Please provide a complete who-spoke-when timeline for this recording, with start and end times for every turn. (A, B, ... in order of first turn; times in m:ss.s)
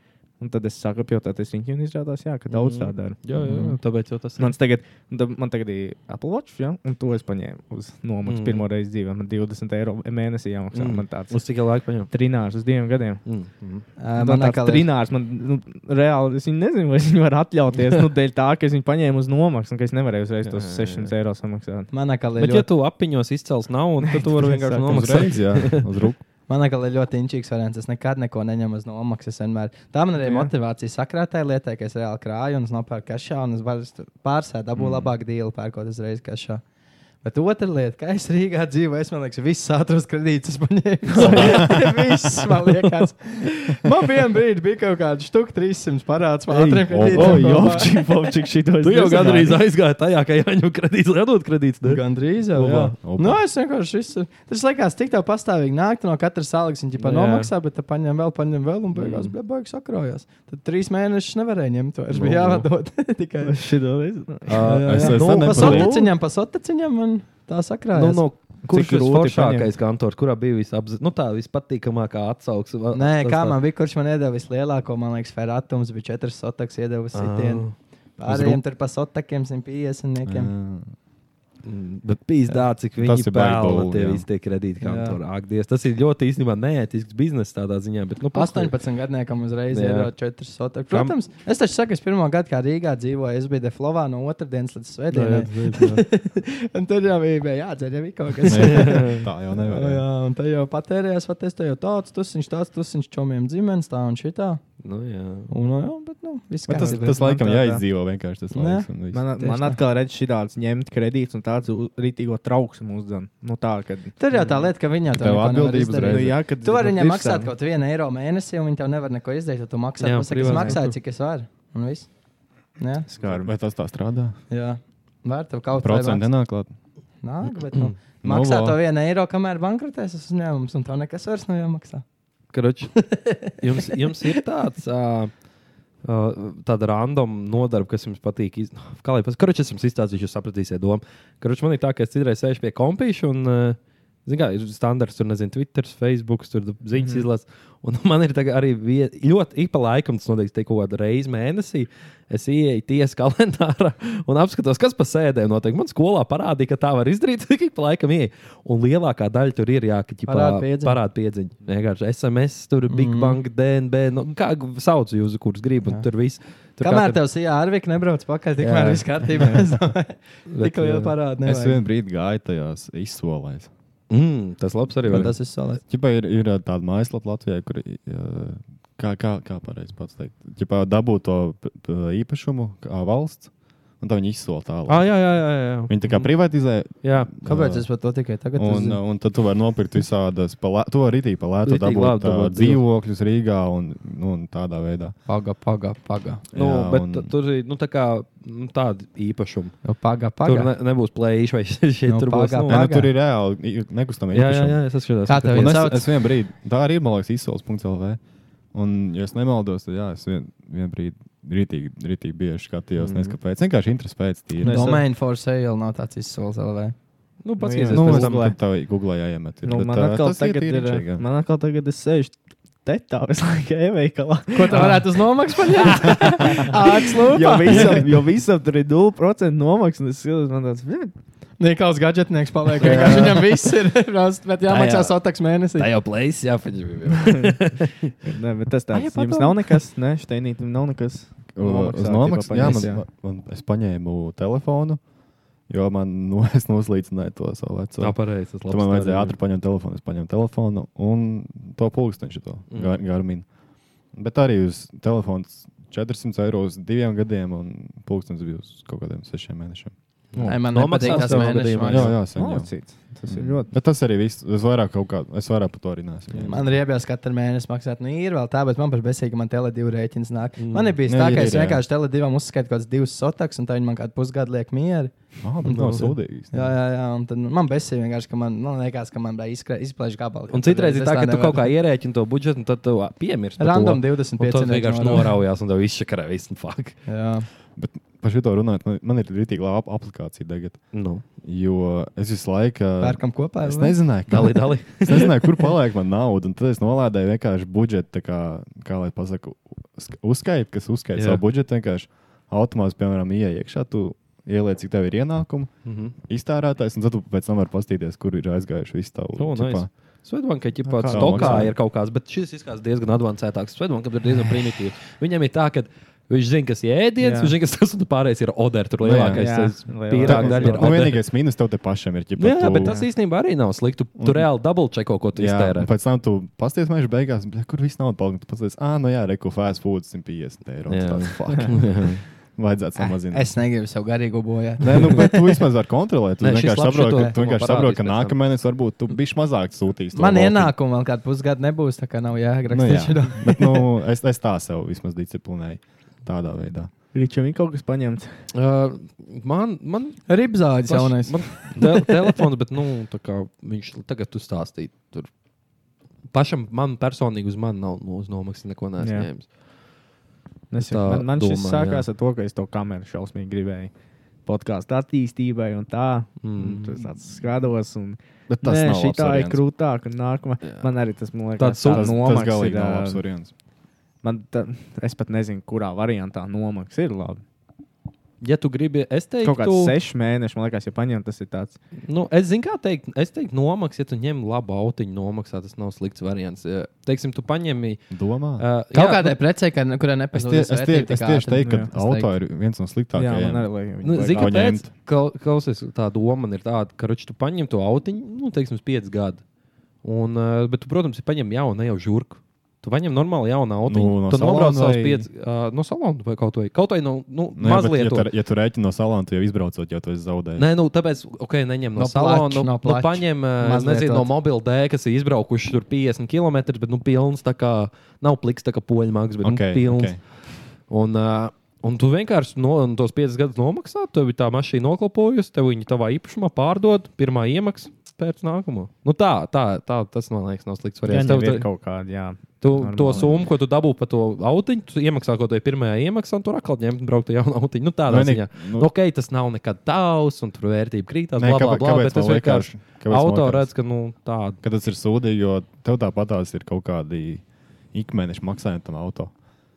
0:00.4-0:03.8 A
0:02.5-0:04.5 B
0:04.4-0:11.5 A
0:08.3-0:08.6 B
0:10.7-0:12.1 B
0:12.0-0:13.2 A
0:13.3-0:13.8 B
0:14.0-0:14.9 C
0:14.2-0:21.9 A
0:20.4-0:21.1 B
0:21.9-0:22.7 C
0:22.4-0:25.9 B
0:24.0-0:25.2 A
0:24.9-0:26.2 D
0:26.5-0:36.6 C
0:34.8-0:35.1 D
0:37.2-0:47.9 C
0:41.1-0:42.6 A
0:41.2-0:41.5 B
0:41.2-0:41.7 D
0:46.5-0:46.9 B
0:46.9-0:47.8 D
0:47.1-0:49.6 A
0:48.8-0:52.0 B
0:51.8-1:03.6 C
0:52.6-0:53.0 B
0:53.0-0:53.4 D
0:57.0-0:57.5 B
0:59.0-0:59.3 B
1:02.1-1:02.7 B
1:03.4-1:04.6 A
1:04.5-1:05.9 B
1:04.6-1:08.2 C
1:04.9-1:06.0 D
1:05.4-1:06.1 A
1:07.9-1:13.6 B
1:08.6-1:09.7 A
1:12.9-1:20.5 C
1:17.1-1:17.8 B
1:18.3-1:18.6 D
1:20.2-1:20.9 D
1:21.6-1:28.7 B
1:23.0-1:24.3 D
1:24.8-1:25.2 C
1:28.3-1:44.6 C
1:29.7-1:30.1 B
1:30.9-1:31.2 B
1:35.1-1:36.0 B
1:38.5-1:40.0 D
1:38.5-1:39.2 B
1:44.8-1:45.5 B
1:45.5-1:47.2 C
1:46.7-1:49.2 D
1:47.0-1:47.8 A
1:48.5-1:49.8 C
1:49.1-1:54.2 A
1:54.2-2:02.1 C
1:55.1-1:56.4 D
1:56.0-1:57.5 A
2:00.0-2:01.0 B
2:00.5-2:00.8 A
2:02.8-2:03.1 C
2:03.1-2:03.5 A
2:03.2-2:04.4 D
2:04.5-2:06.3 C
2:05.8-2:06.7 D
2:07.2-2:12.0 C
2:08.2-2:08.8 D
2:12.5-2:15.3 B
2:13.0-2:14.4 C
2:16.0-2:47.2 B
2:27.0-2:27.2 A
2:40.3-2:41.0 C
2:42.9-2:43.4 C
2:46.8-2:51.8 C
2:48.6-2:49.5 B
2:50.5-2:51.1 B
2:51.4-2:53.7 D
2:54.1-2:55.4 B
2:55.1-2:55.8 C
2:55.1-3:07.9 D
3:04.9-3:06.3 B
3:07.0-3:07.3 B
3:07.4-3:09.0 C
3:08.6-3:15.2 D
3:11.6-3:12.8 B
3:15.3-3:16.4 C
3:16.5-3:17.3 D
3:16.5-3:19.8 B
3:19.8-3:20.7 C
3:20.4-3:22.8 B
3:22.1-3:23.1 C
3:22.7-3:24.9 D
3:24.3-3:25.9 B
3:25.3-3:26.1 C
3:25.5-3:28.2 D
3:28.7-3:35.0 D
3:33.0-3:33.4 B
3:34.6-3:35.0 A
3:34.6-3:37.0 C
3:37.4-3:38.5 B
3:37.6-3:38.6 A
3:37.9-3:41.2 D
3:39.6-3:45.2 A
3:44.5-3:48.1 C
3:44.7-3:45.0 B
3:45.8-3:46.1 B
3:45.9-3:51.1 A
3:51.6-3:55.9 C
3:52.8-3:53.5 B
3:52.8-3:53.3 D
3:54.7-3:58.1 B
3:57.2-3:57.6 A
3:58.2-4:03.0 A
3:58.9-3:59.8 B
3:59.2-3:59.4 C
4:01.6-4:05.0 D
4:05.7-4:13.5 D
4:08.0-4:09.4 B
4:12.7-4:13.0 B
4:14.1-4:19.9 D
4:20.3-4:22.2 B
4:20.4-4:22.2 C
4:20.9-4:22.7 D
4:22.3-4:23.7 A
4:23.3-4:26.8 D
4:26.5-4:35.1 C
4:30.6-4:31.0 B
4:31.1-4:31.8 D
4:35.4-4:36.7 D
4:35.7-4:36.1 B
4:36.5-4:41.7 C
4:40.5-4:47.0 B
4:43.6-4:45.4 C
4:47.1-4:47.5 C
4:47.8-5:09.9 D
4:50.9-4:51.2 B
4:53.0-4:54.0 C
4:54.3-4:55.7 B
5:01.2-5:01.4 B
5:05.9-5:06.2 B
5:09.4-5:21.2 B
5:10.8-5:11.7 A
5:11.1-5:11.8 D
5:17.2-5:17.6 A
5:19.0-5:23.0 D
5:19.4-5:21.1 A
5:22.4-5:25.9 B
5:22.8-5:23.1 A
5:24.2-5:24.5 D
5:25.3-5:33.6 D
5:30.9-5:32.2 B
5:33.0-5:35.6 C
5:34.8-5:40.7 D
5:36.4-5:38.6 B
5:40.1-5:43.8 C
5:42.7-5:46.9 D
5:47.1-5:48.4 A
5:48.5-5:55.3 B
5:50.3-5:52.0 C
5:56.3-5:59.5 B
5:59.0-5:59.3 A
6:00.7-6:13.2 A
6:00.8-6:02.1 B
6:06.4-6:07.1 B
6:08.5-6:09.6 D
6:10.6-6:10.9 B
6:11.6-6:12.1 B
6:11.9-6:13.5 D
6:14.2-6:17.4 A
6:18.4-6:20.0 B
6:19.4-6:21.8 A
6:22.0-6:29.4 B
6:28.1-6:28.7 D
6:28.9-6:32.3 C
6:30.3-6:34.9 D
6:31.6-6:31.9 A
6:33.1-6:34.7 A
6:34.0-6:39.4 B
6:40.0-6:48.3 B
6:43.9-6:45.3 D
6:47.6-6:50.7 D
6:50.6-7:11.7 B
6:52.0-6:54.3 C
6:59.4-7:00.2 D
7:11.1-7:13.4 A
7:12.6-7:24.6 B
7:18.1-7:18.9 D
7:21.4-7:23.9 D
7:24.6-7:29.4 D